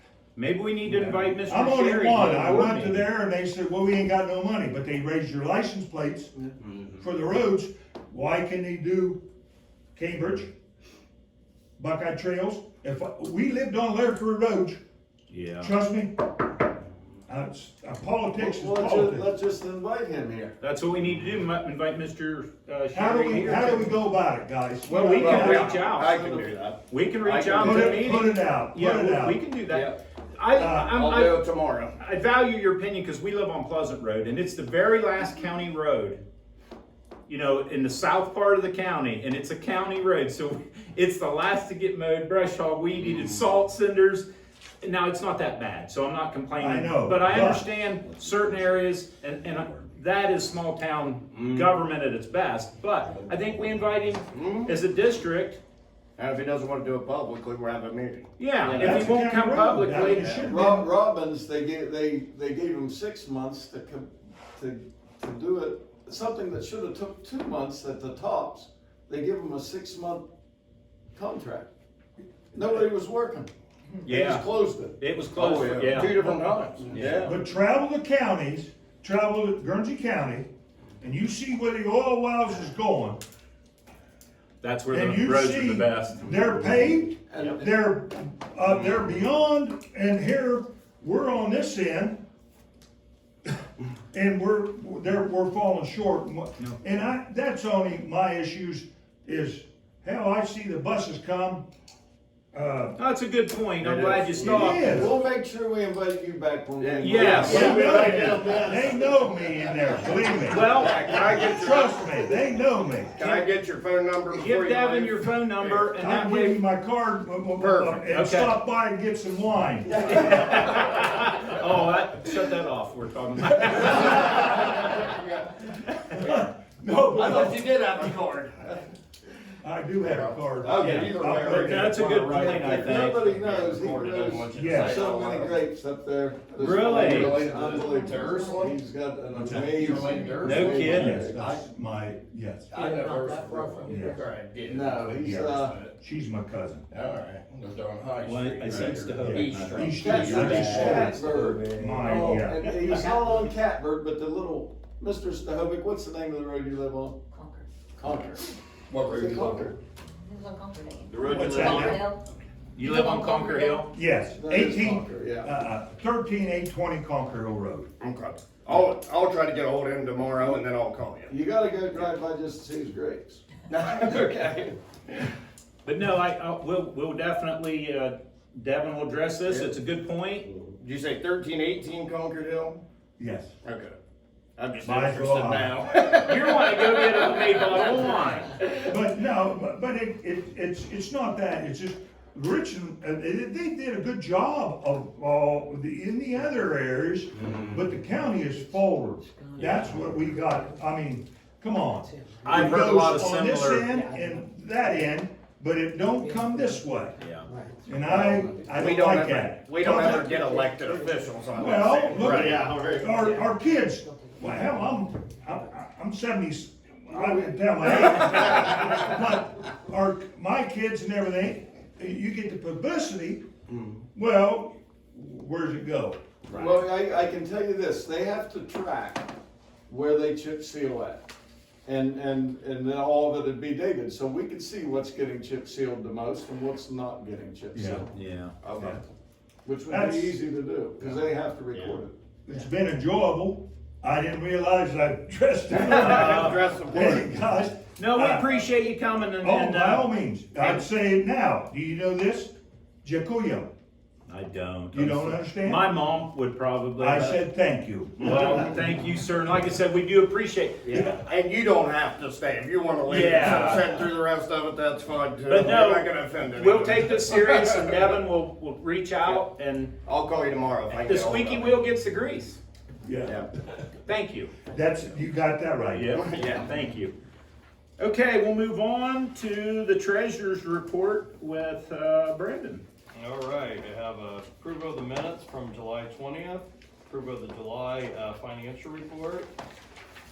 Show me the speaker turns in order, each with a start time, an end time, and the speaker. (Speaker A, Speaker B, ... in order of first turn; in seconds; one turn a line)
Speaker A: 0.3-3.0
Speaker B: 0.8-6.3
Speaker B: 7.0-9.2
Speaker B: 9.9-10.5
Speaker B: 11.8-14.8
Speaker A: 15.3-15.7
Speaker B: 15.6-16.1
Speaker B: 17.3-19.2
Speaker C: 18.3-20.5
Speaker A: 20.6-24.0
Speaker B: 22.9-25.7
Speaker D: 24.9-28.0
Speaker A: 24.9-31.4
Speaker C: 25.0-26.5
Speaker B: 27.6-29.4
Speaker D: 29.7-30.0
Speaker B: 30.6-30.9
Speaker D: 30.9-31.9
Speaker A: 32.0-36.2
Speaker A: 37.3-44.3
Speaker D: 43.0-43.4
Speaker A: 44.8-55.6
Speaker B: 46.6-47.7
Speaker D: 51.4-51.6
Speaker D: 54.3-54.7
Speaker D: 56.1-58.3
Speaker A: 58.4-60.5
Speaker C: 58.6-59.1
Speaker B: 58.6-60.9
Speaker C: 60.4-70.2
Speaker C: 71.1-71.7
Speaker C: 72.5-73.5
Speaker C: 74.0-75.0
Speaker A: 74.0-76.4
Speaker D: 75.3-77.0
Speaker C: 76.8-77.3
Speaker B: 77.2-80.5
Speaker B: 81.0-83.2
Speaker A: 84.6-86.3
Speaker B: 84.9-92.2
Speaker C: 87.3-87.7
Speaker D: 88.7-89.0
Speaker B: 94.1-101.6
Speaker B: 102.5-103.0
Speaker A: 103.0-105.1
Speaker D: 103.8-104.9
Speaker C: 104.3-108.8
Speaker B: 104.4-105.1
Speaker D: 106.8-109.2
Speaker A: 107.0-107.8
Speaker B: 107.3-113.2
Speaker A: 110.5-111.4
Speaker D: 110.7-112.0
Speaker D: 113.1-115.9
Speaker A: 113.2-113.5
Speaker A: 114.3-116.6
Speaker B: 116.0-120.4
Speaker D: 117.6-118.0
Speaker A: 118.1-118.5
Speaker A: 120.0-125.1
Speaker D: 125.0-125.5
Speaker B: 126.1-128.0
Speaker D: 126.2-126.5
Speaker D: 127.1-128.8
Speaker B: 129.6-132.0
Speaker D: 130.0-135.6
Speaker A: 130.8-133.3
Speaker C: 131.8-141.5
Speaker B: 134.5-135.0
Speaker A: 136.6-137.4
Speaker D: 136.6-138.8
Speaker E: 137.7-138.7
Speaker D: 139.3-140.7
Speaker B: 139.3-140.0
Speaker E: 140.1-140.9
Speaker A: 140.4-141.2
Speaker B: 140.6-142.7
Speaker D: 142.7-145.9
Speaker E: 142.8-144.2
Speaker B: 143.8-144.2
Speaker C: 144.6-145.8
Speaker B: 145.1-146.8
Speaker D: 146.9-151.0
Speaker A: 148.2-152.4
Speaker B: 149.1-152.8
Speaker C: 149.9-157.2
Speaker E: 157.3-157.7
Speaker C: 158.0-159.8
Speaker D: 158.9-159.7
Speaker E: 160.0-162.2
Speaker D: 161.1-162.0
Speaker B: 161.3-162.0
Speaker A: 162.7-163.9
Speaker E: 162.8-163.8
Speaker B: 163.9-167.9
Speaker C: 164.3-165.6
Speaker D: 168.0-171.4
Speaker C: 171.3-174.7
Speaker D: 173.7-174.6
Speaker A: 175.8-180.5
Speaker D: 179.4-179.7
Speaker D: 180.7-182.8
Speaker B: 183.2-183.5
Speaker D: 183.6-183.9
Speaker D: 184.6-187.9
Speaker B: 184.8-185.8
Speaker A: 186.2-188.6
Speaker B: 188.7-207.1
Speaker D: 197.4-197.8
Speaker E: 197.9-201.0
Speaker E: 201.8-203.2
Speaker A: 202.4-203.9
Speaker E: 203.9-205.2
Speaker E: 206.0-208.0
Speaker A: 207.2-207.5
Speaker B: 207.8-210.4
Speaker D: 208.1-212.7
Speaker E: 210.9-211.2
Speaker B: 211.5-223.4
Speaker E: 211.9-215.8
Speaker F: 212.3-213.0
Speaker C: 217.1-217.5
Speaker D: 223.7-224.0
Speaker B: 224.1-226.2
Speaker D: 226.5-226.8
Speaker C: 226.5-229.3
Speaker C: 229.9-231.2
Speaker C: 231.8-238.1
Speaker B: 237.7-238.0
Speaker A: 238.1-238.5
Speaker C: 239.6-242.1
Speaker B: 239.9-240.4
Speaker B: 242.4-248.5
Speaker D: 245.7-247.3
Speaker A: 245.9-246.7
Speaker A: 248.0-250.8
Speaker B: 249.4-253.7
Speaker A: 254.3-257.4
Speaker B: 254.9-255.9
Speaker B: 257.0-258.6
Speaker A: 258.2-261.2
Speaker D: 260.9-267.4
Speaker A: 263.1-264.0
Speaker A: 265.5-269.9
Speaker D: 270.0-271.8
Speaker A: 270.9-272.6
Speaker B: 273.0-273.4
Speaker A: 274.0-274.6
Speaker B: 274.7-276.2
Speaker A: 275.9-277.1
Speaker D: 276.2-276.7
Speaker A: 278.0-282.8
Speaker F: 283.1-289.5